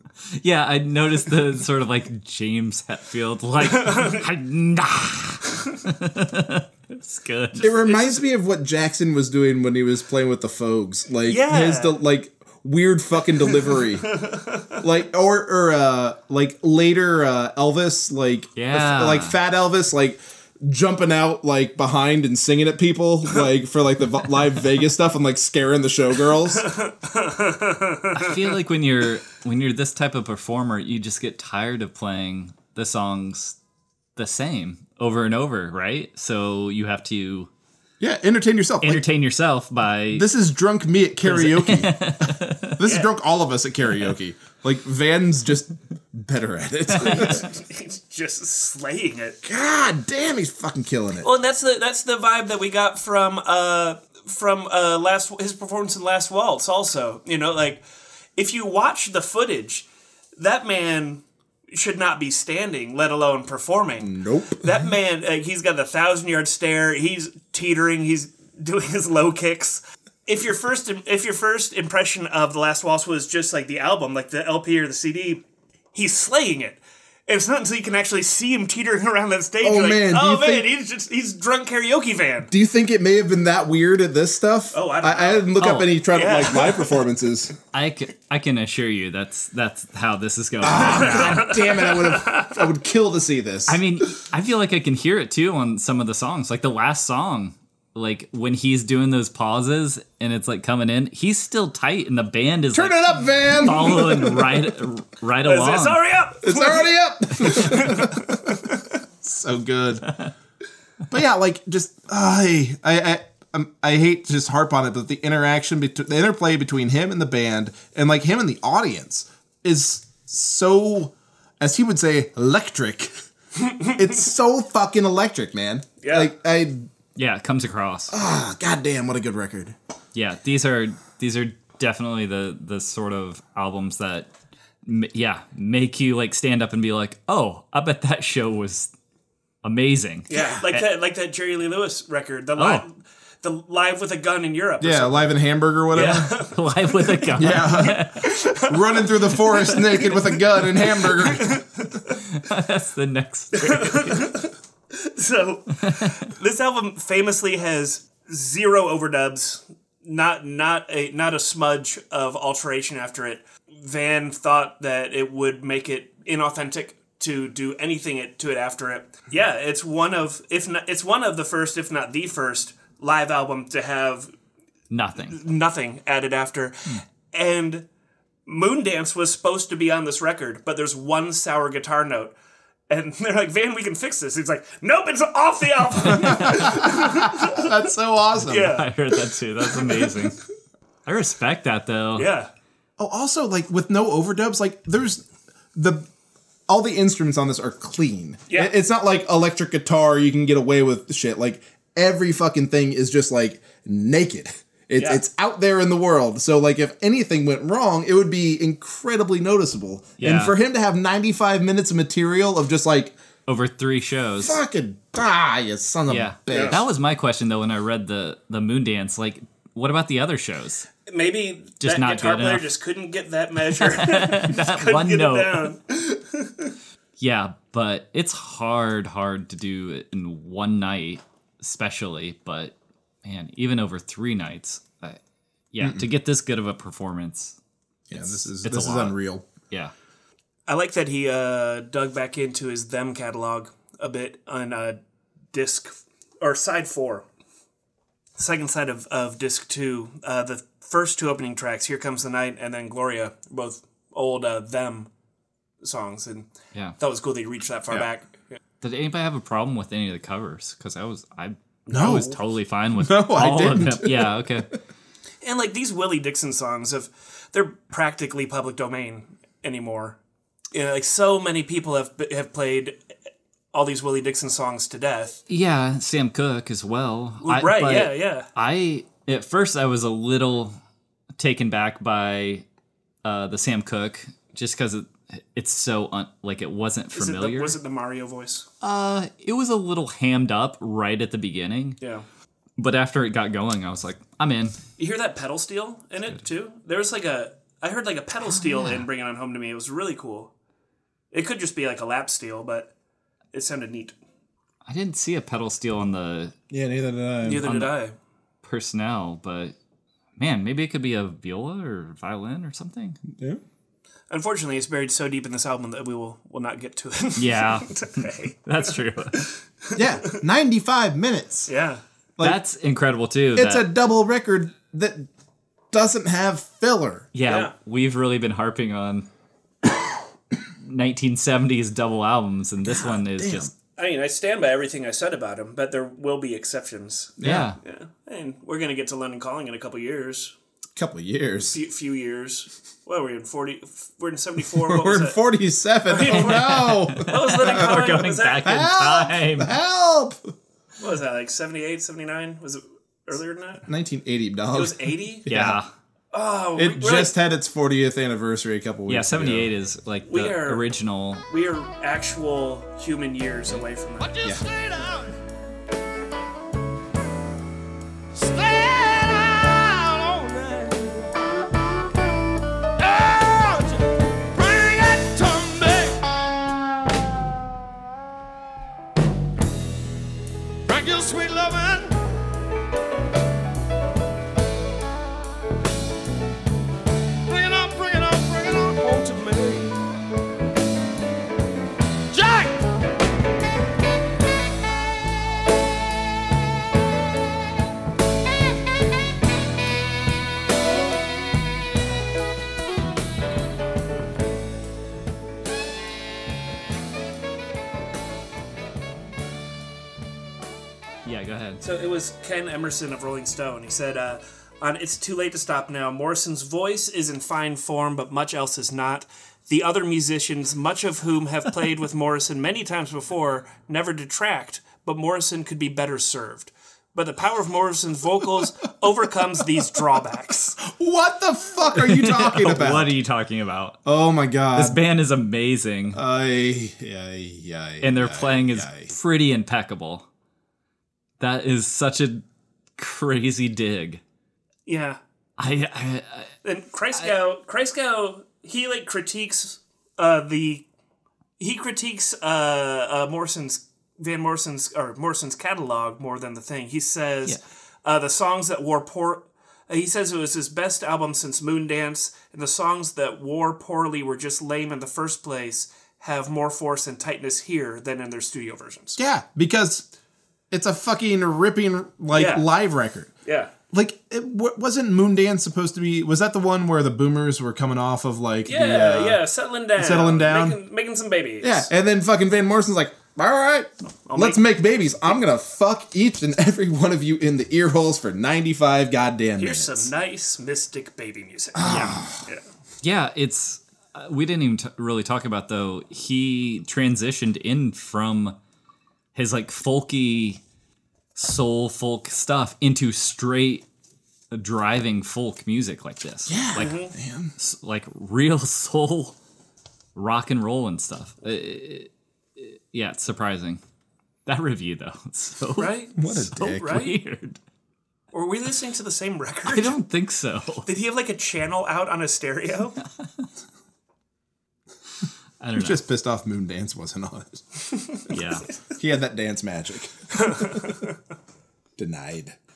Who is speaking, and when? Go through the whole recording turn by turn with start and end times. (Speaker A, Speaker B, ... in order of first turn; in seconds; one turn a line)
Speaker A: 0.4-7.7
Speaker B: 3.7-4.2
Speaker C: 7.6-14.2
Speaker B: 7.7-8.2
Speaker B: 11.2-12.0
Speaker B: 13.7-14.8
Speaker C: 14.8-26.7
Speaker A: 18.6-19.4
Speaker B: 26.6-28.5
Speaker A: 28.1-33.6
Speaker A: 34.1-37.5
Speaker C: 38.0-39.0
Speaker A: 38.8-40.2
Speaker C: 40.1-41.9
Speaker A: 41.2-42.8
Speaker C: 42.8-47.5
Speaker B: 42.8-43.1
Speaker B: 47.0-49.4
Speaker C: 49.4-51.3
Speaker B: 51.2-57.8
Speaker B: 58.4-59.9
Speaker B: 60.4-75.4
Speaker C: 64.0-64.7
Speaker B: 75.9-82.5
Speaker C: 79.6-80.7
Speaker C: 82.5-87.5
Speaker B: 84.7-87.0
Speaker A: 85.6-85.9
Speaker A: 87.7-91.5
Speaker C: 90.6-93.8
Speaker B: 90.7-92.7
Speaker A: 93.7-106.0
Speaker C: 102.7-104.6
Speaker B: 105.4-109.0
Speaker C: 106.4-108.6
Speaker C: 109.2-110.1
Speaker C: 111.1-123.1
Speaker B: 123.6-123.9
Speaker C: 123.9-126.9
Speaker B: 126.0-126.3
Speaker A: 127.2-128.1
Speaker C: 128.1-129.7
Speaker A: 130.1-134.3
Speaker A: 134.8-138.9
Speaker A: 139.6-140.8
Speaker B: 140.3-145.3
Speaker A: 142.6-142.8
Speaker C: 144.8-146.3
Speaker B: 145.9-152.1
Speaker A: 146.0-148.2
Speaker C: 147.4-151.6
Speaker A: 152.1-154.3
Speaker B: 153.5-174.3
Speaker A: 155.8-156.1
Speaker A: 174.9-175.4
Speaker B: 175.3-177.8
Speaker B: 178.4-182.3
Speaker B: 182.9-187.8
Speaker C: 186.1-188.8
Speaker A: 186.1-186.7
Speaker B: 188.4-190.3
Speaker A: 188.6-190.4
Speaker A: 191.1-192.3
Speaker B: 192.2-192.5
Speaker C: 193.0-196.1
Speaker C: 196.7-213.1
Speaker A: 210.2-210.5
Speaker A: 213.5-214.6
Speaker C: 214.4-216.8
Speaker A: 216.1-220.9
Speaker B: 216.5-216.8
Speaker B: 221.1-226.7
Speaker A: 221.8-222.7
Speaker A: 223.8-225.7
Speaker A: 227.2-235.2
Speaker A: 235.7-237.6
Speaker C: 235.8-236.1
Speaker C: 238.1-239.4
Speaker A: 238.1-239.2
Speaker B: 240.7-245.0
Speaker B: 245.5-247.2
Speaker B: 248.3-255.1
Speaker B: 255.8-258.6
Speaker A: 258.8-264.7
Speaker B: 261.9-262.4
Speaker C: 261.9-262.3
Speaker C: 263.0-264.7
Speaker B: 265.4-270.2
Speaker B: 270.7-273.0
Speaker B: 273.7-275.4
Speaker A: 275.5-280.8
Speaker B: 277.4-278.5
Speaker A: 281.4-282.6
Speaker A: 283.2-287.8
Speaker B: 287.1-288.7
Speaker A: 288.8-292.0
Speaker A: 292.8-294.8
Speaker B: 295.0-300.5
Speaker A: 298.4-299.1
Speaker B: 301.3-302.9
Speaker B: 303.5-304.1
Speaker A: 304.9-306.5
Speaker C: 306.7-307.7
Speaker B: 307.4-308.1
Speaker A: 307.6-307.9
Speaker A: 308.6-309.7
Speaker A: 310.4-313.2
Speaker C: 313.3-313.6
Speaker B: 314.3-320.4
Speaker A: 317.4-319.4
Speaker C: 319.9-321.7
Speaker B: 321.7-322.0
Speaker A: 322.4-323.9
Speaker C: 323.5-325.3
Speaker C: 325.9-327.3
Speaker A: 327.3-329.3
Speaker B: 327.4-327.7
Speaker A: 330.8-333.7
Speaker C: 332.8-333.7
Speaker B: 334.0-340.5
Speaker C: 337.4-337.7
Speaker A: 337.4-337.8
Speaker C: 340.9-341.8
Speaker B: 341.7-345.4
Speaker C: 344.7-350.5
Speaker B: 346.1-348.8
Speaker A: 346.3-349.7
Speaker B: 351.0-353.8
Speaker C: 353.9-355.8
Speaker B: 354.7-355.4
Speaker A: 355.5-355.9
Speaker B: 356.3-357.3
Speaker C: 356.8-359.7
Speaker A: 359.1-361.4
Speaker B: 360.3-360.9
Speaker B: 361.5-364.4
Speaker D: 364.2-365.4
Speaker D: 368.3-371.3
Speaker D: 373.0-376.3
Speaker D: 380.9-382.2
Speaker D: 387.4-390.0
Speaker D: 392.3-392.9
Speaker A: 411.2-411.8
Speaker B: 411.8-430.8
Speaker C: 430.8-433.1
Speaker A: 431.9-434.0
Speaker C: 434.0-435.0
Speaker A: 434.7-436.2
Speaker C: 436.1-439.1
Speaker A: 438.0-440.2
Speaker A: 441.4-442.4
Speaker A: 443.0-444.2
Speaker B: 444.9-445.2
Speaker A: 445.6-446.5
Speaker B: 446.6-450.8
Speaker B: 451.6-469.2
Speaker C: 469.2-470.1
Speaker C: 470.7-473.3
Speaker B: 472.3-472.6
Speaker B: 473.4-473.7
Speaker C: 473.9-479.4
Speaker B: 478.6-481.9
Speaker C: 480.0-480.8
Speaker C: 481.6-490.1
Speaker B: 484.3-484.6
Speaker B: 489.6-492.6
Speaker C: 491.8-492.4
Speaker A: 491.9-492.2
Speaker A: 493.0-498.6
Speaker A: 499.3-500.6
Speaker A: 501.3-503.8
Speaker A: 504.5-507.0
Speaker C: 506.5-507.5
Speaker B: 506.8-507.1
Speaker A: 507.6-509.4
Speaker A: 510.1-513.8
Speaker A: 514.5-517.6
Speaker B: 515.8-517.1
Speaker C: 516.2-517.0
Speaker B: 518.3-520.0
Speaker A: 519.6-520.9
Speaker B: 520.9-523.0
Speaker A: 525.6-526.0
Speaker C: 525.8-527.6
Speaker A: 528.3-528.7
Speaker C: 529.0-530.8
Speaker B: 530.3-531.1
Speaker C: 532.0-532.5